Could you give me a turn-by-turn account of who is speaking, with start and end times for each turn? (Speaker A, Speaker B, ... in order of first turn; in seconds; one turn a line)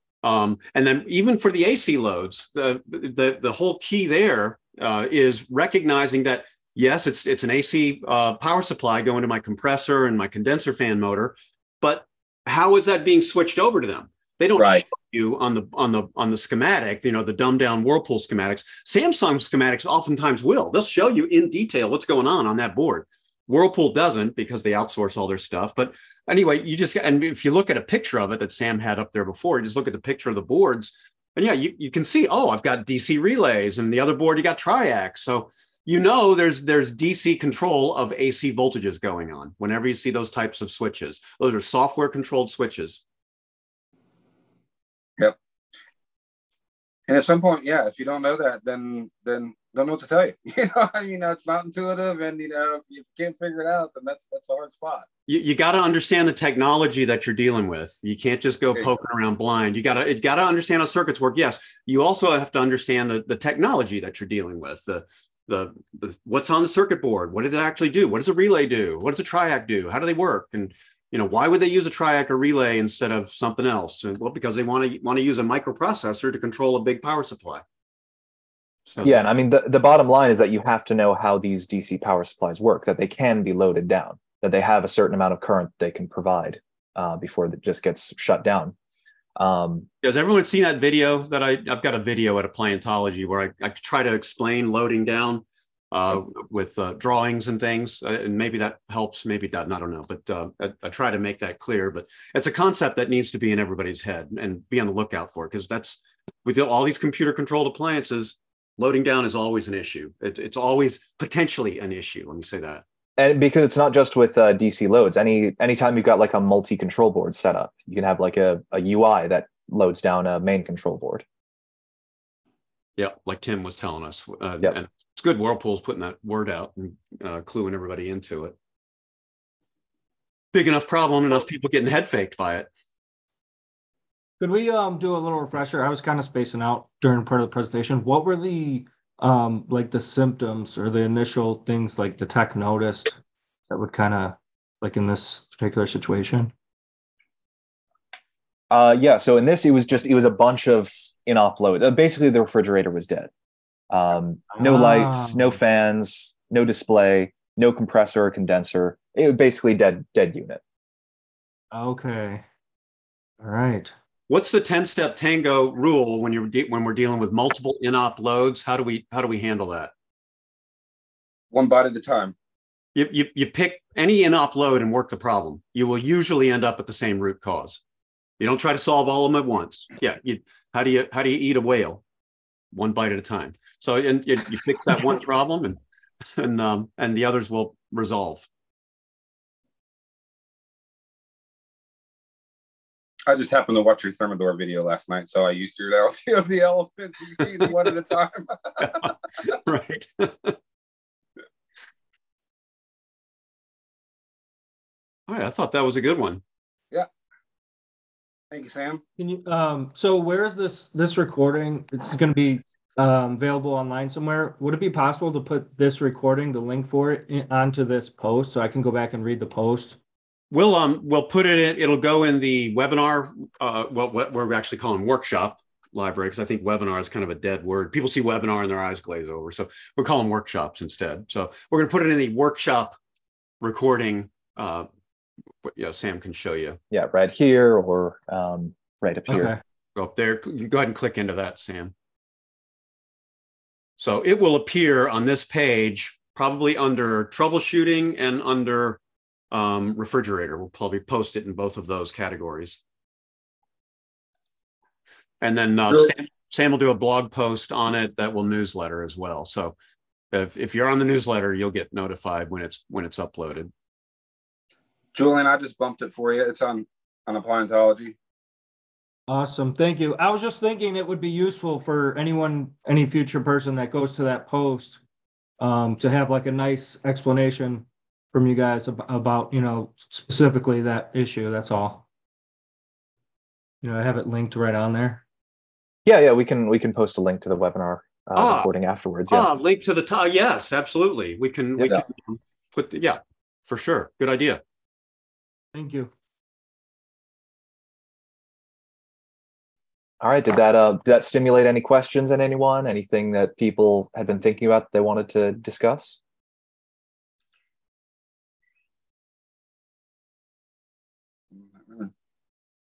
Speaker A: 0.2-43.0
Speaker B: 14.6-14.8
Speaker B: 47.1-55.0
Speaker A: 55.3-77.6
Speaker A: 78.9-79.2
Speaker C: 79.0-88.7
Speaker C: 89.4-89.9
Speaker A: 90.0-112.8
Speaker C: 113.2-121.2
Speaker A: 123.0-128.5
Speaker A: 130.5-132.7
Speaker D: 134.4-143.2
Speaker D: 143.7-146.5
Speaker C: 148.7-153.3
Speaker C: 153.9-160.6
Speaker D: 154.6-155.5
Speaker D: 161.7-162.4
Speaker D: 163.4-163.9
Speaker A: 164.3-169.9
Speaker B: 171.5-172.3
Speaker A: 172.9-177.8
Speaker A: 178.4-182.0
Speaker A: 182.7-185.8
Speaker A: 186.4-188.5
Speaker B: 193.3-199.4
Speaker A: 198.8-200.6
Speaker A: 205.3-206.4
Speaker B: 208.5-209.0
Speaker D: 209.2-219.9
Speaker A: 220.5-232.9
Speaker A: 233.6-234.9
Speaker A: 235.6-236.8
Speaker C: 236.9-239.5
Speaker D: 239.3-239.6
Speaker A: 239.9-241.9
Speaker A: 244.0-249.0
Speaker A: 249.5-252.8
Speaker A: 255.4-259.7
Speaker A: 260.3-263.7
Speaker B: 265.1-268.1
Speaker D: 269.3-275.0
Speaker D: 275.6-282.0
Speaker D: 283.8-285.2
Speaker C: 286.0-289.5
Speaker A: 288.4-288.7
Speaker A: 289.3-294.6
Speaker D: 295.7-296.1
Speaker C: 300.2-306.2